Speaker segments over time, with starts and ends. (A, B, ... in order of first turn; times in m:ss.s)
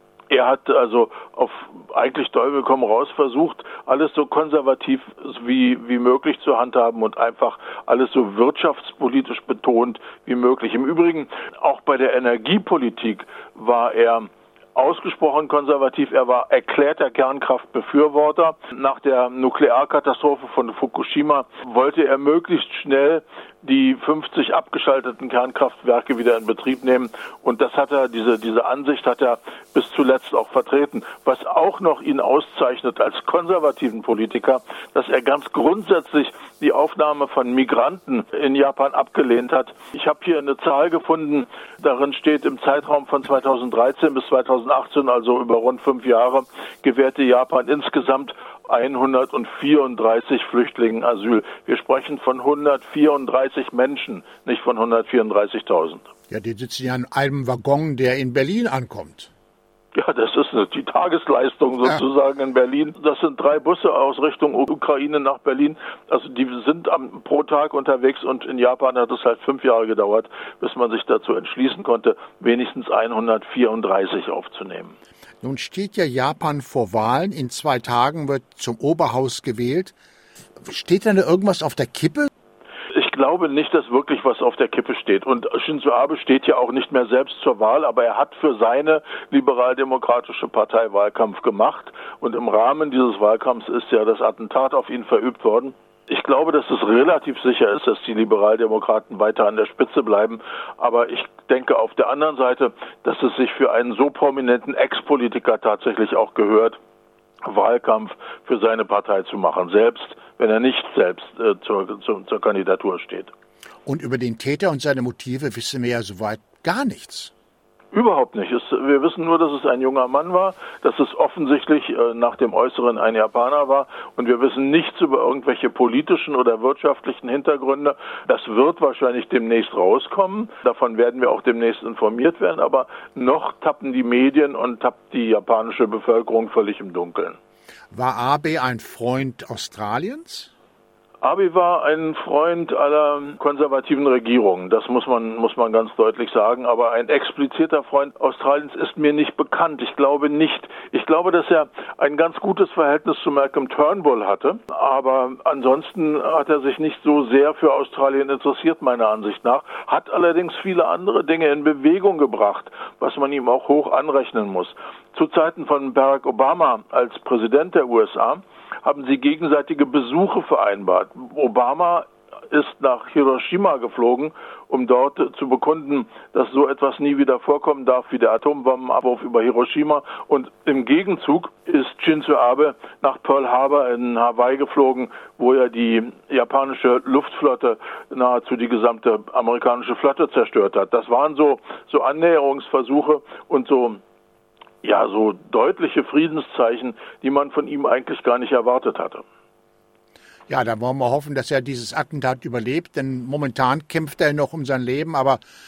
0:00.3-0:56.1 A
0:56.3-0:59.3 B
0:59.9-1:15.0 A
1:15.4-1:19.9 B
1:20.6-1:22.3 B
1:22.9-1:46.8 A
1:47.4-1:53.3 A
1:53.8-1:57.3 B
1:57.9-2:17.4 A
2:17.9-2:20.5 B
2:21.2-3:14.0 A
3:14.8-3:19.2 A
3:20.5-3:25.4 B